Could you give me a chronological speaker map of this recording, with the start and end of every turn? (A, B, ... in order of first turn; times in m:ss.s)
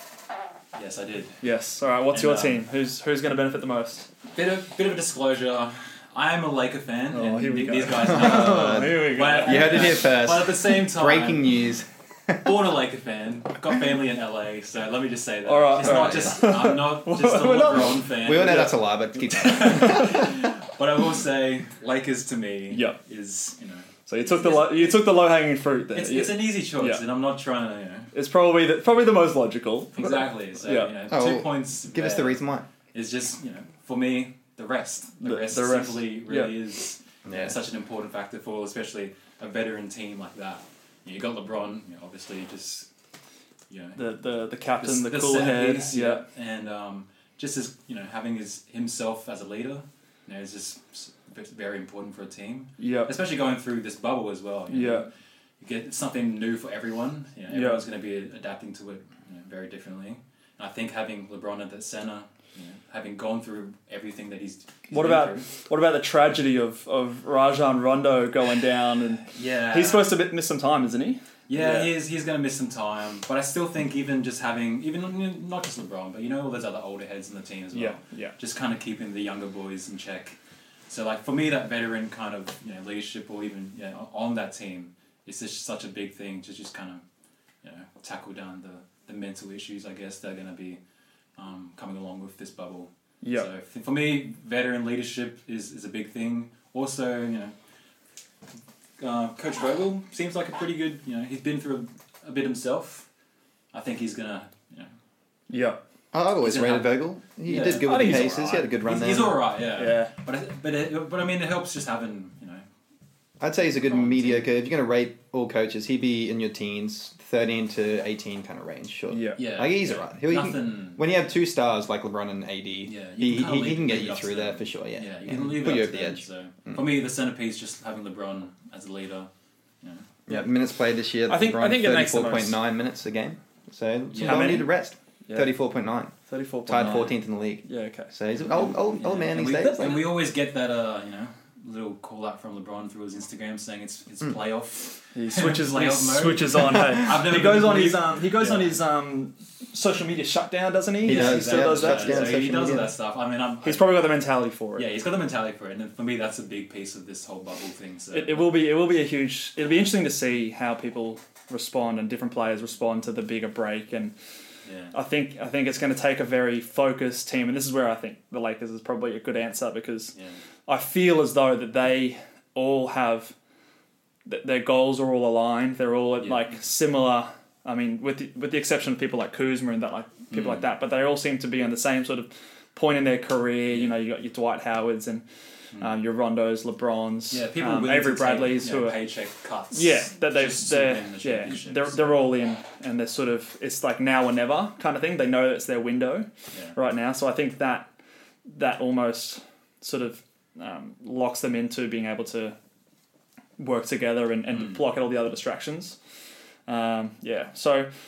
0:00.7-0:01.4 A
0:01.4-0:04.1 B
0:02.1-0:02.6 A
0:04.4-0:11.5 A
0:07.1-0:09.9 B
0:08.0-0:12.5 C
0:12.4-0:18.8 A
0:15.5-0:18.7 B
0:15.8-0:16.4 C
0:17.7-0:20.3 C
0:19.3-0:25.1 A
0:19.5-0:20.2 B
0:22.7-0:23.0 B
0:24.1-0:27.0 B
0:25.9-0:28.1 A
0:28.1-0:30.9 B
0:30.0-0:42.9 A
0:31.1-0:32.7 C
0:35.2-0:36.6 B
0:37.3-0:37.6 C
0:43.7-0:44.0 A
0:44.0-0:46.2 B
0:44.8-0:55.1 A
0:52.8-0:53.1 B
0:54.7-0:55.1 B
0:55.6-1:05.5 A
0:57.5-0:57.8 B
1:04.9-1:11.9 B
1:09.3-1:10.2 A
1:11.5-1:20.4 A
1:17.7-1:18.4 B
1:20.9-1:27.0 A
1:27.6-1:30.8 A
1:31.4-1:37.5 A
1:33.2-1:33.5 B
1:39.0-1:43.1 A
1:43.7-1:44.9 A
1:45.5-1:45.8 B
1:46.1-1:49.4 C
1:46.4-1:52.6 A
1:47.8-1:48.7 B
1:49.8-1:50.1 B
1:53.4-2:06.9 C
1:53.9-1:54.5 A
1:59.1-1:59.4 B
1:59.4-2:01.0 A
2:02.9-2:09.3 A
2:09.8-2:10.1 A
2:10.3-2:16.1 C
2:11.3-2:12.6 B
2:14.1-2:14.6 A
2:14.2-2:14.7 B
2:15.3-2:15.5 B
2:16.3-2:18.1 B
2:16.7-2:20.1 C
2:18.5-2:28.7 A
2:25.2-2:32.4 B
2:31.0-2:32.9 C
2:31.0-2:34.1 A
2:33.6-2:34.8 B
2:34.8-2:38.5 A
2:38.1-2:44.1 B
2:44.6-2:44.9 A
2:44.9-2:50.1 B
2:50.7-2:53.3 B
2:54.3-3:05.2 B
2:56.2-2:56.6 A
3:00.3-3:00.7 A
3:03.7-3:04.0 A
3:05.8-3:09.0 B
3:07.3-3:12.2 A
3:09.7-3:17.9 B
3:18.5-3:22.6 B
3:23.6-3:26.0 B
3:26.7-3:27.9 B